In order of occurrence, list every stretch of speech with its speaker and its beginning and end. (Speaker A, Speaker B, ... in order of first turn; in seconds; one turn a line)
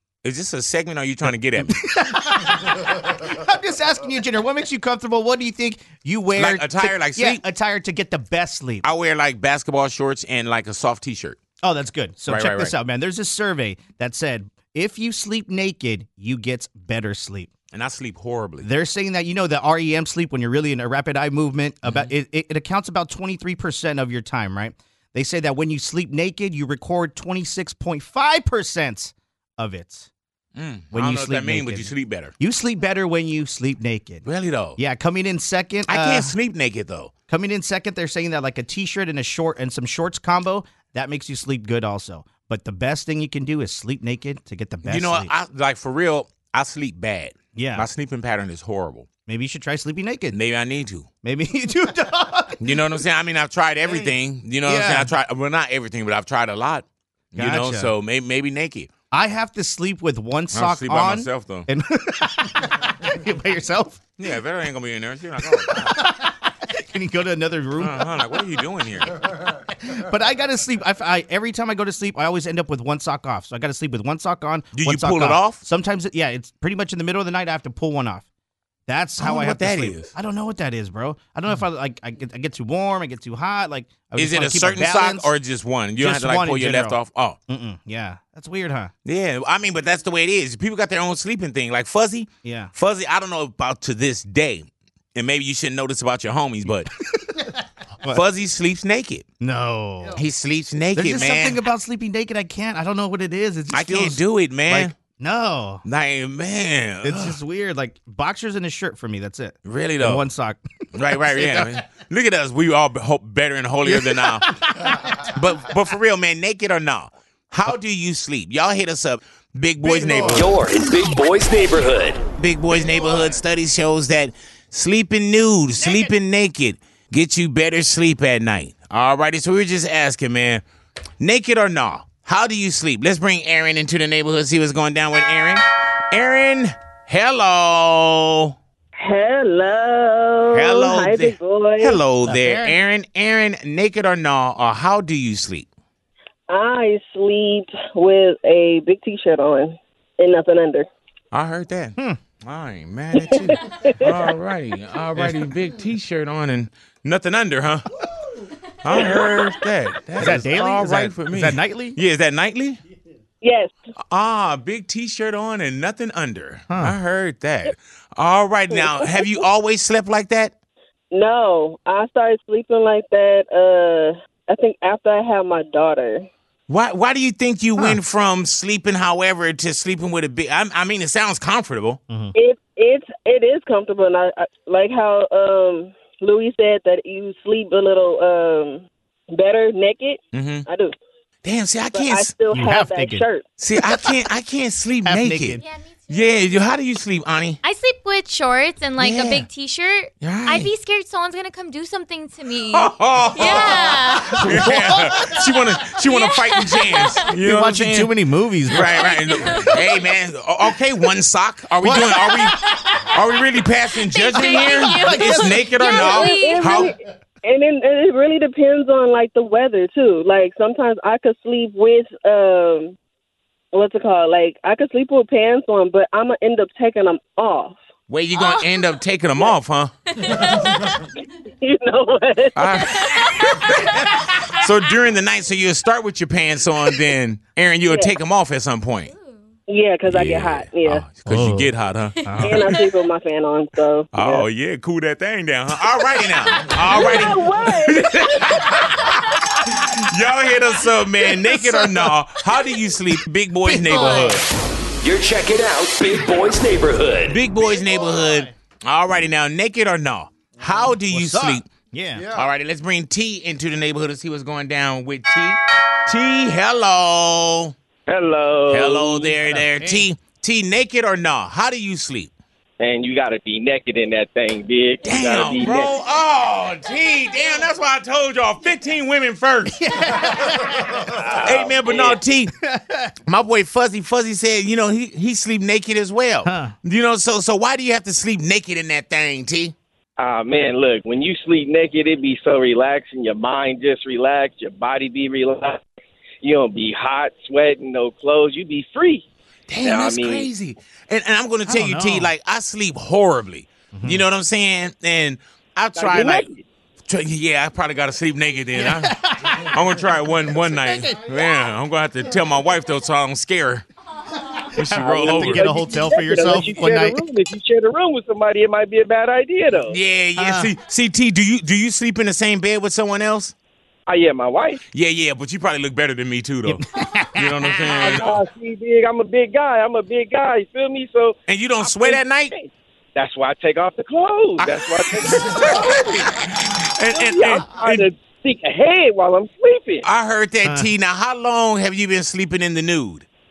Speaker A: 0.2-1.8
Speaker B: 1.6-8.8
Speaker A: 6.3-7.4
Speaker A: 8.8-11.4
Speaker B: 11.6-17.5
Speaker A: 12.3-12.7
Speaker A: 17.7-18.7
Speaker B: 18.6-30.1
Speaker A: 21.8-22.1
Speaker A: 30.6-32.3
Speaker B: 30.9-34.2
Speaker A: 34.2-34.8
Speaker B: 34.8-36.3
Speaker A: 35.9-37.1
Speaker B: 37.3-45.3
Speaker A: 44.8-49.1
Speaker B: 47.5-47.9
Speaker B: 49.2-50.4
Speaker A: 50.3-51.1
Speaker B: 51.2-52.6
Speaker A: 52.6-58.9
Speaker B: 53.8-55.1
Speaker B: 57.4-57.9
Speaker B: 59.1-64.0
Speaker A: 60.5-61.7
Speaker A: 64.2-66.0
Speaker B: 65.5-68.1
Speaker A: 67.8-69.1
Speaker B: 69.5-78.2
Speaker A: 74.7-75.6
Speaker B: 78.9-85.3
Speaker A: 79.2-80.1
Speaker A: 84.2-87.4
Speaker B: 86.0-88.9
Speaker A: 89.0-96.9
Speaker B: 92.4-92.7
Speaker A: 98.1-99.2
Speaker B: 99.4-100.2
Speaker A: 100.1-101.6
Speaker B: 100.9-105.8
Speaker A: 103.7-104.9
Speaker A: 105.8-107.3
Speaker B: 107.0-111.8
Speaker A: 109.6-110.2
Speaker A: 110.9-114.5
Speaker B: 113.8-115.1
Speaker A: 115.2-120.5
Speaker B: 119.8-120.5
Speaker C: 120.3-122.2
Speaker A: 122.4-130.6
Speaker B: 125.8-126.1
Speaker A: 131.2-138.5
Speaker D: 139.0-142.0
Speaker A: 140.5-145.7
Speaker B: 142.2-142.8
Speaker D: 146.5-150.9
Speaker A: 151.3-157.8
Speaker D: 153.2-154.2
Speaker A: 158.8-162.8
Speaker B: 160.2-162.0
Speaker D: 163.4-163.8
Speaker A: 164.1-170.5
Speaker B: 166.7-166.9
Speaker D: 168.7-169.3
Speaker D: 171.1-176.2
Speaker A: 176.7-182.0
Speaker B: 182.1-182.3
Speaker D: 182.3-190.9
Speaker A: 190.3-190.7
Speaker A: 191.4-192.3
Speaker D: 191.9-193.4
Speaker B: 192.5-193.2
Speaker A: 193.6-197.6
Speaker B: 193.8-194.2
Speaker B: 195.0-195.6
Speaker E: 195.6-196.6
Speaker E: 197.6-204.7
Speaker A: 199.0-199.4
Speaker A: 200.2-200.7
Speaker A: 202.7-208.1
Speaker B: 203.4-205.1
Speaker E: 206.0-207.1
Speaker B: 207.3-209.2
Speaker A: 208.7-212.6
Speaker E: 209.3-209.7
Speaker B: 211.8-212.7
Speaker E: 212.6-213.0
Speaker A: 213.1-216.9
Speaker E: 214.0-216.9
Speaker B: 214.3-215.7
Speaker D: 215.9-222.9
Speaker D: 223.7-227.8
Speaker A: 228.1-229.9
Speaker E: 228.4-228.6
Speaker E: 230.2-230.9
Speaker D: 231.6-232.7
Speaker A: 232.5-234.0
Speaker E: 233.0-233.5
Speaker A: 234.5-239.1
Speaker D: 237.9-238.1
Speaker E: 239.1-239.4
Speaker D: 239.7-241.1
Speaker A: 240.1-242.7
Speaker B: 241.2-241.7
Speaker B: 242.2-242.7
Speaker D: 242.4-244.5
Speaker A: 244.1-254.4
Speaker E: 246.3-246.8
Speaker D: 246.9-248.1
Speaker B: 251.4-252.1
Speaker B: 253.6-254.4
Speaker E: 253.9-254.3
Speaker C: 255.0-257.4
Speaker A: 257.3-261.6
Speaker B: 257.8-258.5
Speaker B: 260.6-262.4
Speaker A: 262.3-267.7
Speaker F: 268.1-269.3
Speaker A: 268.7-272.3
Speaker B: 269.4-270.1
Speaker F: 272.8-275.9
Speaker A: 275.0-279.8
Speaker B: 279.6-281.1
Speaker F: 281.1-282.2
Speaker A: 281.4-282.5
Speaker B: 282.6-283.1
Speaker A: 283.3-289.7
Speaker B: 286.4-286.7
Speaker F: 290.2-295.8
Speaker F: 296.4-299.2
Speaker A: 299.7-306.5
Speaker F: 299.8-300.5
Speaker B: 301.6-302.3
Speaker B: 303.9-304.2
Speaker F: 305.9-306.6
Speaker A: 307.1-313.8
Speaker B: 308.7-309.8
Speaker B: 310.7-311.2
Speaker A: 314.7-315.8
Speaker B: 314.8-317.2
Speaker F: 314.9-320.0
Speaker A: 319.8-323.5
Speaker B: 320.4-320.7
Speaker F: 324.1-324.8
Speaker A: 324.9-326.8
Speaker B: 326.6-328.2
Speaker A: 327.4-328.4
Speaker F: 328.0-336.3
Speaker A: 331.5-332.5
Speaker A: 334.6-338.1
Speaker F: 337.1-340.1
Speaker A: 340.0-343.2
Speaker B: 340.6-340.9